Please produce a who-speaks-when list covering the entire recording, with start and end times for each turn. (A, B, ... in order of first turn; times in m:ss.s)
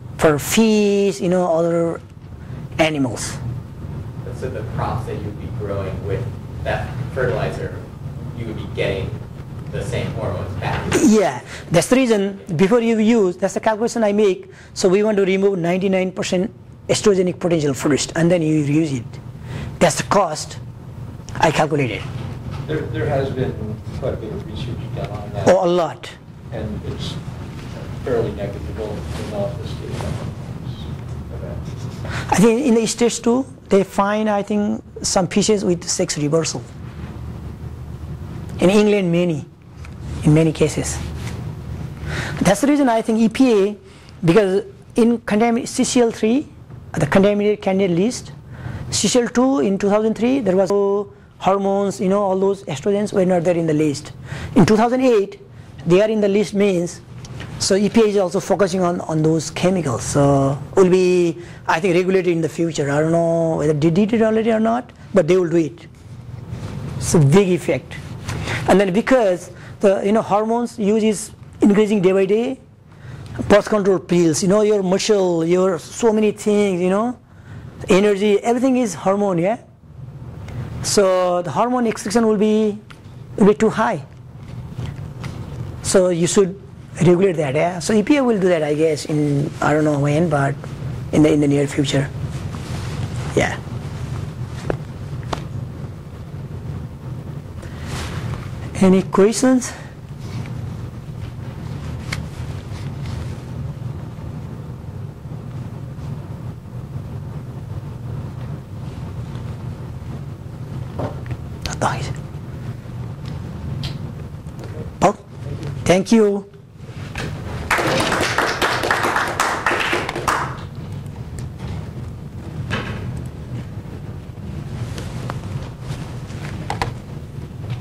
0:00.2-0:02.0 A
0:02.8-0:03.4 A
0:04.2-0:11.2 B
0:11.0-0:19.2 A
0:19.8-0:20.6 A
0:21.4-0:22.1 A
0:22.6-0:25.6 C
0:25.4-0:26.1 A
0:26.5-0:31.6 C
0:32.3-0:36.7 A
0:38.6-0:39.5 A
0:40.2-0:41.0 A
0:42.4-0:48.3 A
0:48.9-0:57.0 A
0:57.6-1:05.9 A
1:07.0-1:08.0 A
1:08.7-1:12.6 A
1:13.5-1:17.2 A
1:17.9-1:19.6 A
1:20.8-1:22.8 A
1:23.4-1:24.0 A
1:25.8-1:30.6 A
1:31.1-1:32.1 A
1:33.3-1:33.6 A
1:38.8-1:39.7 A
1:51.7-1:52.1 A
1:55.8-1:56.5 A